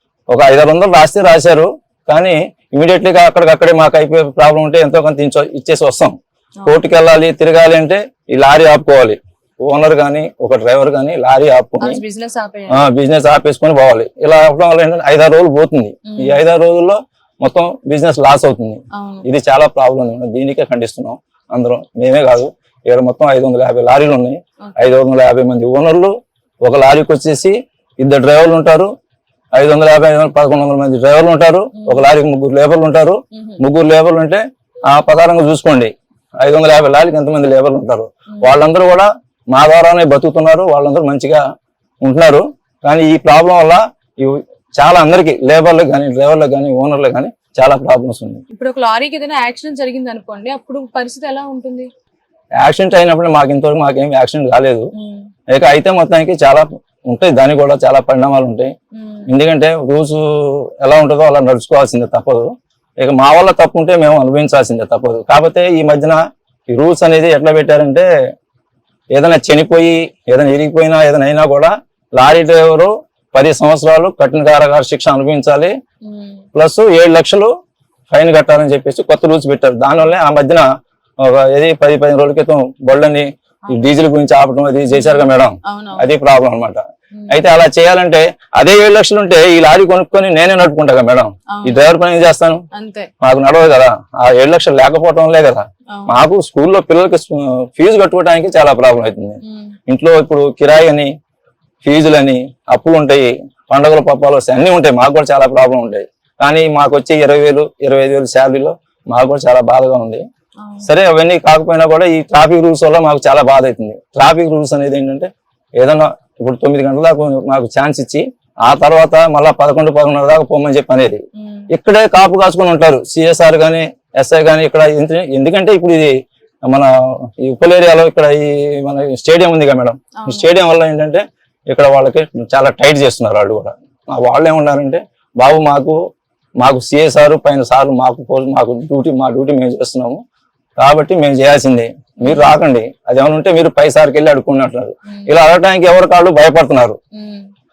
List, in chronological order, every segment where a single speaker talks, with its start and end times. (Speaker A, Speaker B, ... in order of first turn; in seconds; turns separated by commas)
Speaker A: 0.3-6.1, Speaker A: 6.7-12.0, Speaker B: 11.8-12.8, Speaker A: 12.7-28.9, Speaker B: 16.1-16.4, Speaker B: 18.9-19.3, Speaker B: 24.6-24.9, Speaker A: 29.5-41.4, Speaker B: 31.8-32.0, Speaker B: 33.3-33.6, Speaker B: 38.3-38.6, Speaker A: 42.0-48.4, Speaker B: 48.5-51.9, Speaker A: 52.6-54.9, Speaker B: 54.9-55.3, Speaker A: 55.5-58.7, Speaker B: 58.9-59.3, Speaker A: 59.3-66.2, Speaker A: 66.7-68.1, Speaker A: 69.1-75.7, Speaker B: 76.0-76.4, Speaker A: 76.5-77.5, Speaker A: 78.1-80.6, Speaker A: 81.2-92.6, Speaker B: 83.7-83.9, Speaker B: 84.9-86.1, Speaker B: 87.1-87.4, Speaker B: 91.5-91.9, Speaker B: 92.7-93.1, Speaker A: 93.2-101.1, Speaker B: 99.4-99.7, Speaker A: 101.8-110.2, Speaker B: 110.6-110.9, Speaker A: 110.8-126.1, Speaker B: 121.4-121.7, Speaker A: 127.4-135.9, Speaker B: 130.2-130.5, Speaker A: 136.6-140.2, Speaker A: 140.8-147.0, Speaker B: 142.2-142.5, Speaker B: 145.1-145.3, Speaker B: 147.1-147.5